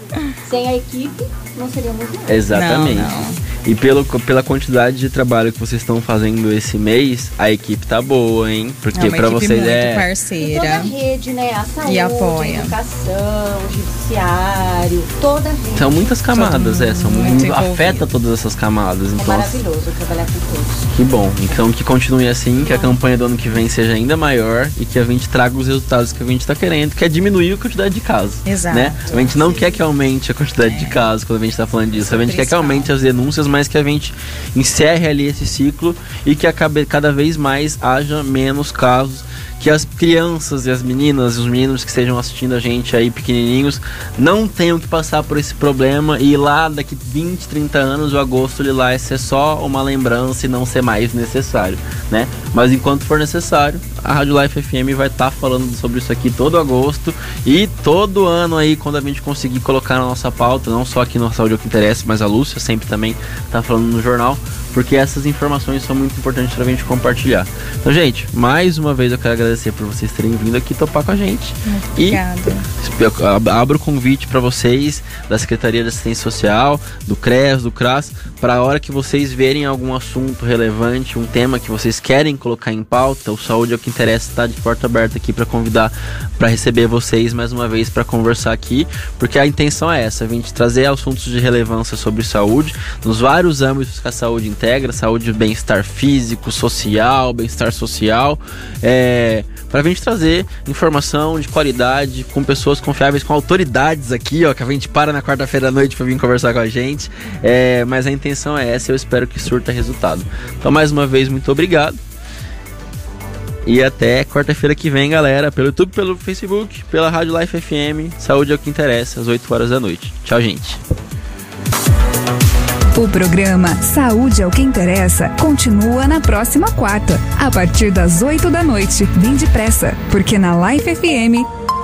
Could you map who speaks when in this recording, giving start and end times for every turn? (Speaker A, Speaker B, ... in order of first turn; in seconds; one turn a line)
Speaker A: 0.4-2.5
Speaker B: 2.3-10.1
Speaker C: 2.5-3.4
Speaker C: 8.9-10.9
Speaker A: 10.4-16.1
Speaker C: 11.8-12.8
Speaker B: 15.8-19.6
Speaker C: 16.3-18.0
Speaker A: 17.2-17.5
Speaker A: 19.1-21.6
Speaker B: 20.9-72.2
Speaker C: 28.4-29.2
Speaker A: 29.1-29.7
Speaker C: 30.6-31.0
Speaker C: 32.1-32.9
Speaker C: 71.7-72.7
Speaker B: 72.8-112.0
Speaker B: 113.7-120.8
Speaker D: 122.9-131.5